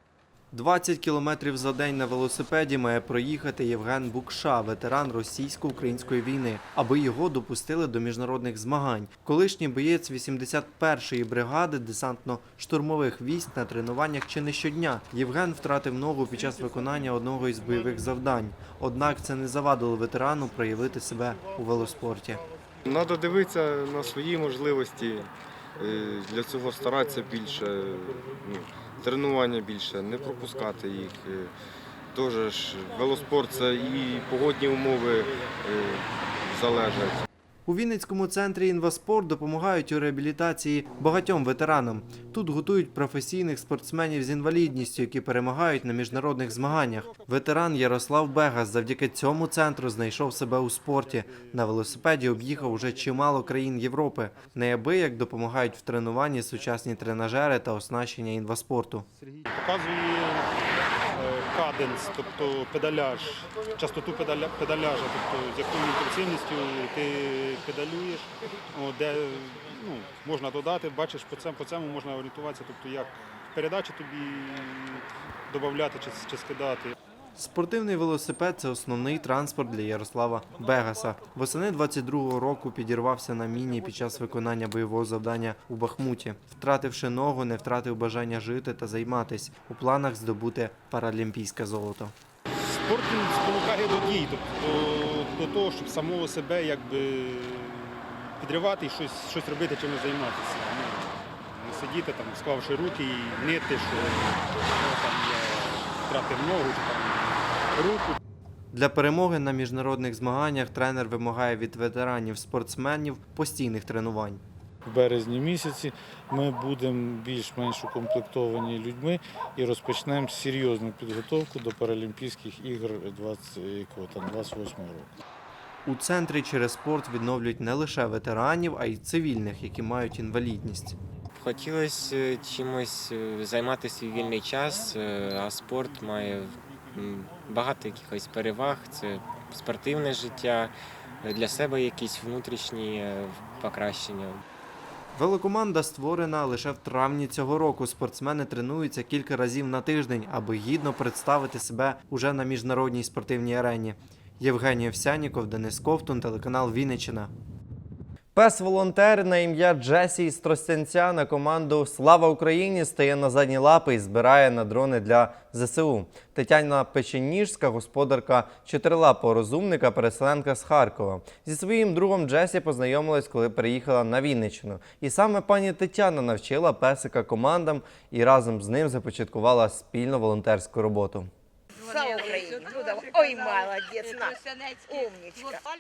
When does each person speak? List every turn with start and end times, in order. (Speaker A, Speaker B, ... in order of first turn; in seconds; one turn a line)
Speaker A: 0.5-22.4
Speaker B: 22.8-31.5
Speaker B: 32.1-37.2
Speaker A: 37.7-59.1
Speaker C: 59.5-60.5
Speaker C: 61.1-76.9
Speaker A: 77.3-92.1
Speaker C: 92.6-108.2
Speaker A: 108.7-114.4
Speaker D: 114.8-125.1
Speaker A: 125.8-130.9
Speaker E: 131.3-144.4
Speaker A: 145.1-157.3
Speaker A: 158.3-181.3
Speaker F: 181.8-185.7